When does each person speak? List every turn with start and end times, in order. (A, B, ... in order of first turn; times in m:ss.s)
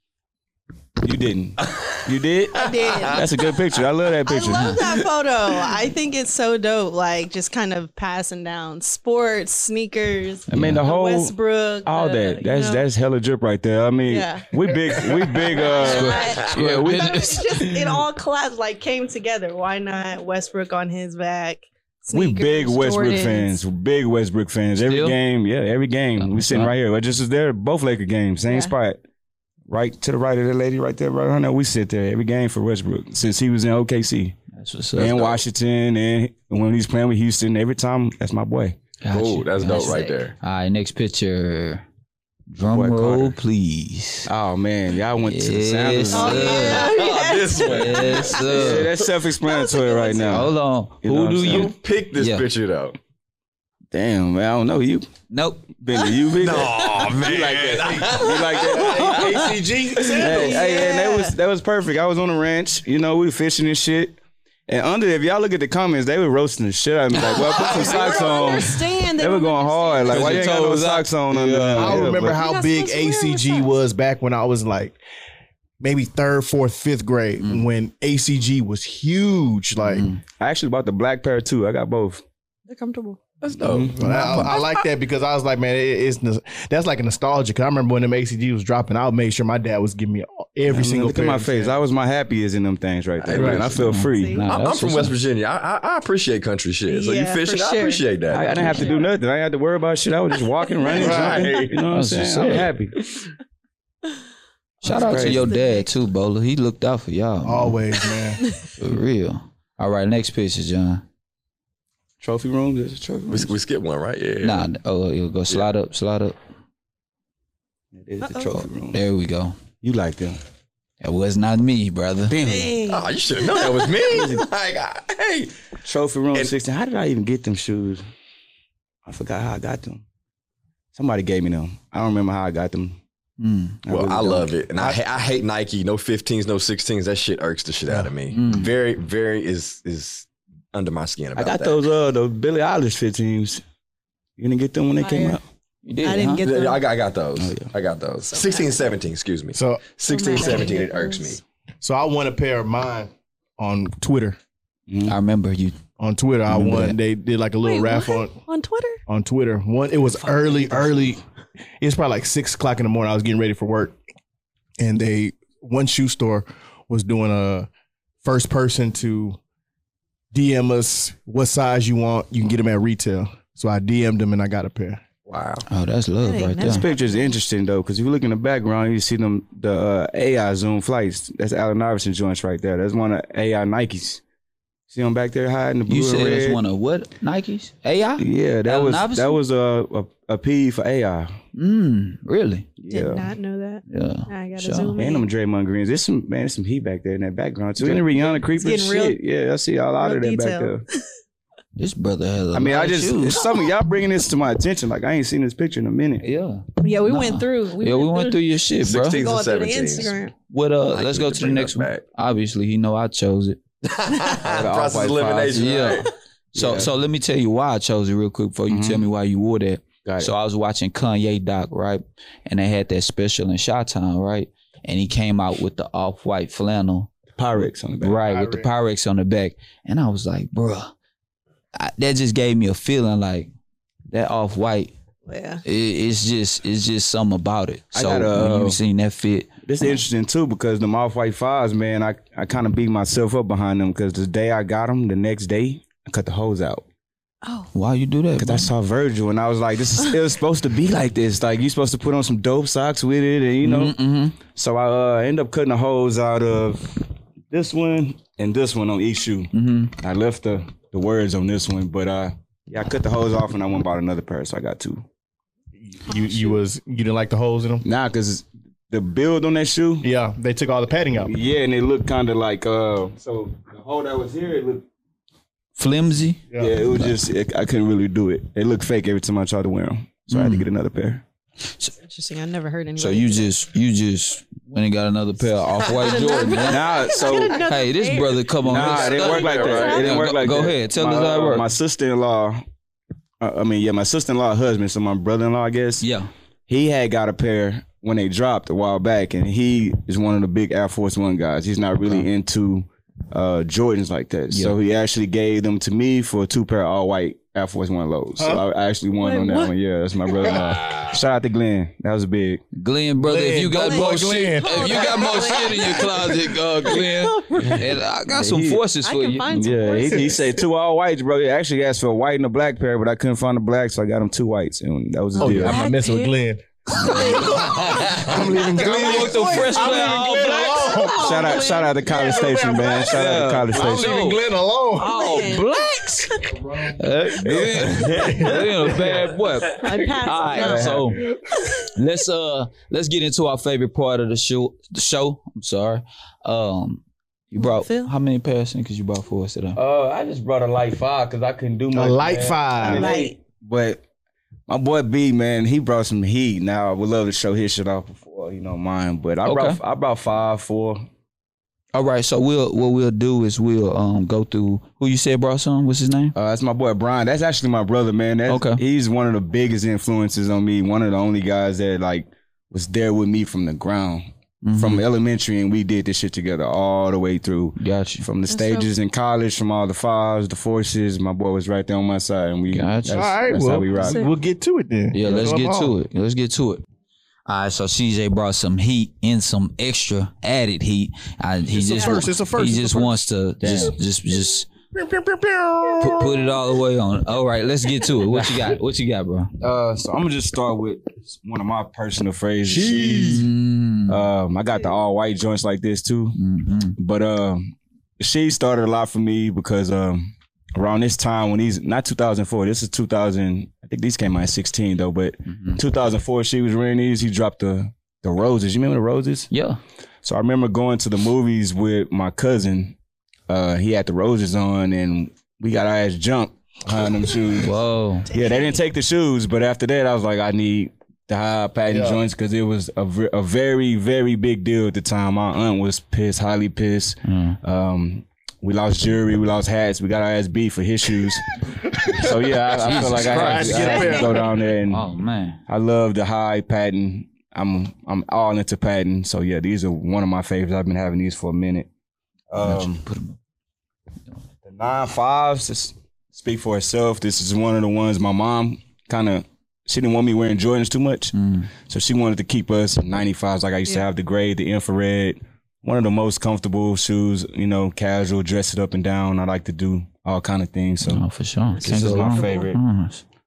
0:01.0-0:04.8 A
0:01.6-0:02.0 B
0:02.6-0:03.2 B
0:02.6-0:03.3 C
0:04.3-0:12.8 C
0:04.5-0:04.8 D
0:10.5-0:17.8 A
0:10.5-0:10.8 D
0:14.1-0:23.6 C
0:15.7-0:17.8 D
0:16.2-0:16.6 B
0:22.1-0:29.0 A
0:24.8-0:25.2 D
0:26.2-0:26.7 D
0:28.5-0:28.7 C
0:29.7-0:34.4 A
0:34.5-0:35.4 D
0:35.0-0:38.8 A
0:39.0-0:41.8 D
0:39.1-0:40.4 B
0:39.8-0:40.1 C
0:42.5-0:44.3 D
0:42.7-0:43.4 A
0:44.3-0:46.7 A
0:45.3-0:47.0 D
0:46.1-0:48.5 C
0:46.5-0:49.1 B
0:47.6-0:48.9 D
0:48.5-0:51.7 A
0:49.4-0:50.5 C
0:50.3-0:52.4 D
0:51.4-0:53.0 B
0:53.9-0:55.1 A
0:55.3-0:55.7 D
0:55.8-0:59.4 A
0:56.4-1:00.2 B
0:58.6-1:00.7 E
1:00.2-1:12.4 A
1:00.2-1:01.3 C
1:07.3-1:10.6 C
1:07.6-1:08.4 B
1:10.1-1:12.1 D
1:11.8-1:15.0 E
1:12.2-1:13.7 C
1:15.8-1:20.1 E
1:17.4-1:17.7 D
1:19.8-1:20.2 D
1:20.4-1:22.2 A
1:22.7-1:23.4 C
1:23.4-1:24.0 B
1:23.6-1:24.5 A
1:24.0-1:31.8 E
1:24.3-1:24.8 C
1:30.7-1:34.4 A
1:33.2-1:33.8 B
1:33.3-1:33.7 E
1:33.8-1:35.2 D
1:34.0-1:34.4 C
1:34.5-1:38.9 B
1:36.9-1:39.0 C
1:38.3-1:43.0 A
1:40.9-1:41.8 B
1:41.0-1:41.5 E
1:41.9-1:42.7 D
1:44.8-1:47.8 D
1:44.8-1:45.9 C
1:44.8-1:45.5 A
1:47.4-1:48.4 E
1:48.4-1:48.7 C
1:48.7-1:51.0 D
1:52.2-1:53.6 A
1:53.3-1:54.7 B
1:54.4-1:56.4 D
1:57.9-1:59.0 A
1:58.9-1:59.6 D
1:59.8-2:00.4 A
2:01.0-2:02.4 D
2:02.3-2:02.9 A
2:02.4-2:03.7 C
2:02.9-2:05.7 B
2:04.1-2:04.4 A
2:05.8-2:08.0 A
2:09.1-2:10.0 A
2:10.9-2:13.0 A
2:13.4-2:13.8 D
2:13.8-2:15.0 A
2:13.9-2:21.8 B
2:18.3-2:18.7 D
2:21.4-2:23.6 A
2:24.4-2:25.4 A
2:25.0-2:25.4 C
2:25.8-2:26.5 D
2:26.0-2:26.8 C
2:26.4-2:31.4 B
2:27.4-2:27.7 A
2:28.3-2:28.8 C
2:29.6-2:29.9 E
2:30.1-2:31.4 C
2:31.8-2:34.4 E
2:34.9-2:35.2 A
2:35.1-2:35.8 D
2:36.0-2:38.4 E
2:36.5-2:37.0 D
2:37.6-2:39.0 C
2:39.1-2:41.2 E
2:41.8-2:44.0 E
2:44.8-2:47.7 E
2:48.2-2:49.4 E
2:50.3-2:55.0 E
2:55.3-2:55.7 B
2:55.7-2:56.9 D
2:56.2-2:57.0 C
2:56.6-3:04.2 A
3:04.9-3:06.6 A
3:05.9-3:09.4 D
3:08.2-3:11.4 A
3:11.5-3:12.7 D
3:12.8-3:13.3 A
3:12.9-3:15.2 C
3:13.9-3:15.0 D
3:15.0-3:20.8 A
3:18.5-3:19.2 C
3:20.0-3:21.0 C
3:21.8-3:23.4 D
3:22.5-3:26.2 A
3:26.2-3:29.2 D
3:26.8-3:28.4 C
3:28.8-3:30.2 B
3:29.0-3:30.3 C
3:30.5-3:33.6 D
3:30.9-3:32.0 B
3:33.9-3:36.1 B
3:34.4-3:36.0 A
3:35.5-3:47.1 D
3:36.6-3:36.9 A
3:38.7-3:39.1 A
3:40.0-3:40.3 A
3:47.4-3:48.2 A
3:48.0-3:50.9 D
3:48.2-3:48.7 E
3:51.8-3:53.5 D
3:54.1-3:54.9 D
3:55.3-3:55.6 C
3:55.6-3:59.5 D
3:57.9-3:58.8 A
3:59.7-4:06.8 A
4:07.4-4:07.7 C
4:07.7-4:08.7 D
4:08.4-4:25.0 A
4:13.6-4:14.4 D
4:19.5-4:19.9 D
4:25.8-4:27.8 E
4:26.1-4:26.5 C
4:27.8-4:30.1 A
4:30.0-4:31.3 E
4:31.2-4:34.8 A
4:35.8-4:37.2 D
4:36.6-4:41.2 A
4:40.3-4:40.7 D
4:42.0-4:43.5 C
4:43.0-4:51.7 D
4:45.8-4:48.5 C
4:46.6-4:47.6 A
4:48.6-4:52.6 A
4:48.7-4:50.1 B
4:49.2-4:50.2 C
4:53.4-4:56.1 A
4:56.0-4:56.3 D
4:56.7-5:12.6 A
5:04.5-5:04.8 D
5:09.2-5:09.7 C
5:12.8-5:19.7 D
5:13.2-5:15.9 E
5:13.8-5:17.9 C
5:18.3-5:18.8 A
5:19.0-5:20.5 C
5:19.5-5:25.8 A
5:25.4-5:26.4 C
5:25.4-5:35.6 E
5:26.9-5:33.0 C
5:27.0-5:31.3 D
5:28.6-5:29.3 A
5:31.2-5:34.4 A
5:33.0-5:34.4 D
5:35.0-5:41.3 D
5:35.0-5:36.6 C
5:37.4-5:38.3 A
5:37.8-5:39.3 E
5:39.8-5:41.9 C
5:40.5-5:41.2 A
5:41.8-5:49.8 D
5:47.6-5:48.1 C
5:49.8-5:54.0 A
5:51.9-5:53.2 E
5:52.8-5:53.4 C
5:54.7-6:01.1 A
5:59.4-5:59.8 D
6:01.9-6:06.4 D
6:06.4-6:24.3 A
6:08.5-6:08.8 D
6:14.6-6:15.0 D
6:17.8-6:18.2 D
6:18.5-6:18.9 C
6:22.7-6:23.4 D
6:23.1-6:25.9 E
6:23.9-6:24.3 C
6:25.1-6:26.8 D
6:27.5-6:34.7 D
6:31.8-6:33.2 E
6:33.6-6:34.0 A
6:34.9-6:36.4 E
6:36.0-6:39.5 D
6:39.6-6:43.5 A
6:42.7-6:43.5 B
6:43.1-6:44.2 D
6:44.1-6:46.4 A
6:46.4-6:47.0 D
6:47.0-6:59.5 A
6:55.5-6:55.8 D
6:59.5-6:59.8 D
7:00.2-7:03.0 A
7:03.5-7:07.8 A
7:07.6-7:08.3 D
7:08.3-7:25.1 A
7:08.3-7:08.7 C
7:11.9-7:12.2 E
7:17.2-7:17.6 D
7:22.8-7:25.6 D
7:23.0-7:24.4 E
7:23.9-7:24.3 C
7:25.7-7:31.9 A
7:32.5-7:33.0 A
7:32.6-7:33.4 D
7:34.6-7:51.2 A
7:41.3-7:41.7 D
7:51.1-7:53.2 D
7:51.8-7:52.8 A
7:51.8-7:52.7 C